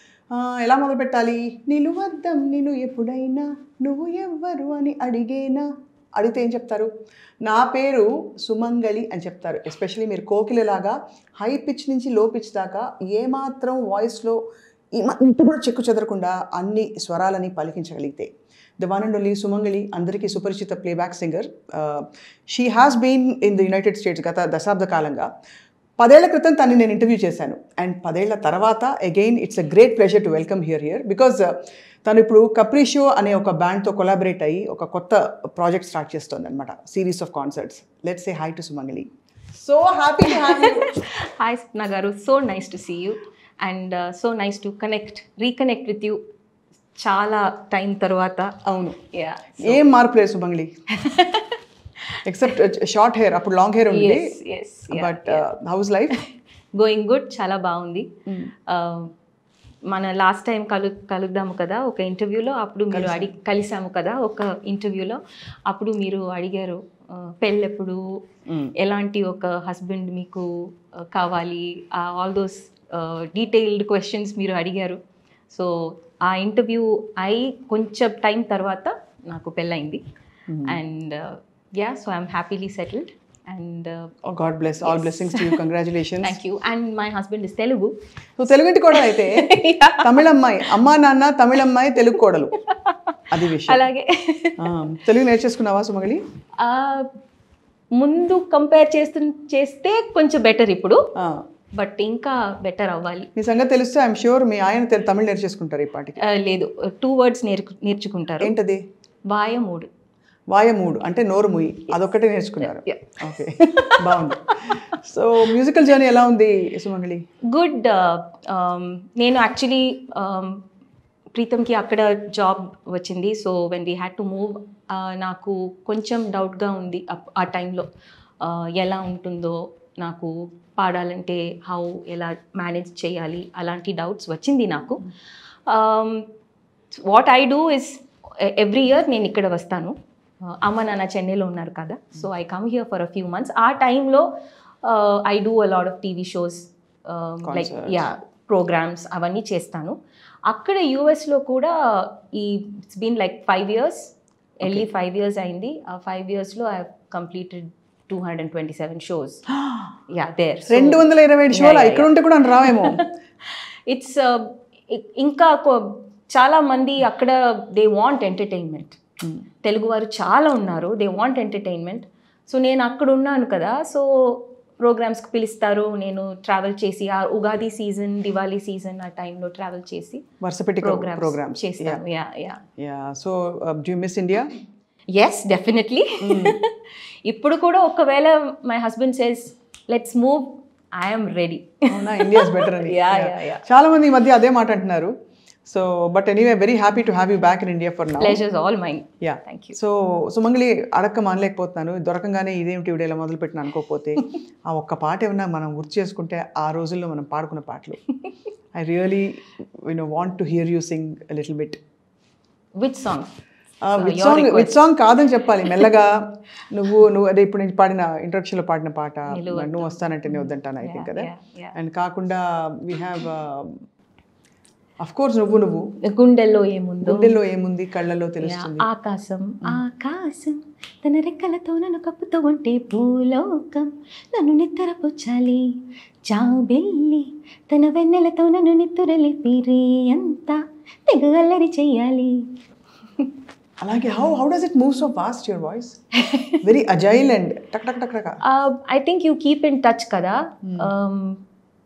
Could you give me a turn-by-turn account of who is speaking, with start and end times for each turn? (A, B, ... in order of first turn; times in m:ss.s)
0:00.3-0:06.9 A
0:07.4-0:14.4 A
0:15.0-0:25.3 A
0:26.0-0:40.9 A
0:40.3-0:46.2 B
0:47.0-0:48.6 B
0:48.6-0:49.0 A
0:49.1-0:49.8 B
0:49.6-0:50.7 A
0:50.9-0:51.6 B
0:52.2-0:54.4 A
0:53.9-0:55.5 B
0:54.9-0:56.2 A
0:56.1-0:58.1 B
0:58.3-0:58.5 A
0:58.7-0:59.1 B
0:59.9-1:08.0 B
1:02.9-1:03.3 A
1:08.5-1:08.7 A
1:08.8-1:20.0 B
1:20.5-1:20.8 A
1:20.6-1:24.1 B
1:24.2-1:26.4 A
1:24.8-1:25.6 B
1:26.2-1:27.9 B
1:28.4-1:29.5 A
1:28.9-1:30.8 B
1:30.0-1:32.6 A
1:32.2-1:34.7 B
1:33.3-1:33.9 A
1:34.6-1:36.2 A
1:36.6-1:37.1 B
1:38.0-1:41.0 B
1:41.8-1:43.3 B
1:43.4-1:46.2 A
1:46.2-1:48.5 B
1:48.4-1:48.8 A
1:49.3-1:49.9 B
1:50.5-1:57.2 A
1:52.6-1:54.8 B
1:57.5-2:00.6 B
2:01.3-2:07.9 B
2:08.4-2:15.1 B
2:15.7-2:16.3 B
2:17.0-2:24.3 B
2:24.8-2:30.0 B
2:27.4-2:28.0 A
2:30.5-2:39.4 B
2:40.1-2:49.0 B
2:40.7-2:43.0 A
2:49.6-3:00.2 B
3:00.4-3:02.0 A
3:00.8-3:02.6 B
3:02.8-3:04.5 A
3:05.1-3:13.6 B
3:06.2-3:06.6 A
3:11.9-3:15.1 A
3:15.7-3:18.4 A
3:18.2-3:19.8 B
3:19.2-3:28.0 A
3:28.8-3:31.8 A
3:32.8-3:33.3 B
3:33.8-3:36.2 A
3:34.0-3:34.8 B
3:35.6-3:35.9 B
3:36.7-3:43.8 A
3:39.3-3:41.8 B
3:45.0-3:45.9 A
3:46.0-3:47.3 B
3:47.0-3:48.9 A
3:48.4-3:55.7 B
3:56.3-4:02.5 B
4:03.8-4:06.0 A
4:06.2-4:06.6 B
4:06.6-4:08.4 A
4:08.4-4:11.4 B
4:10.6-4:10.9 A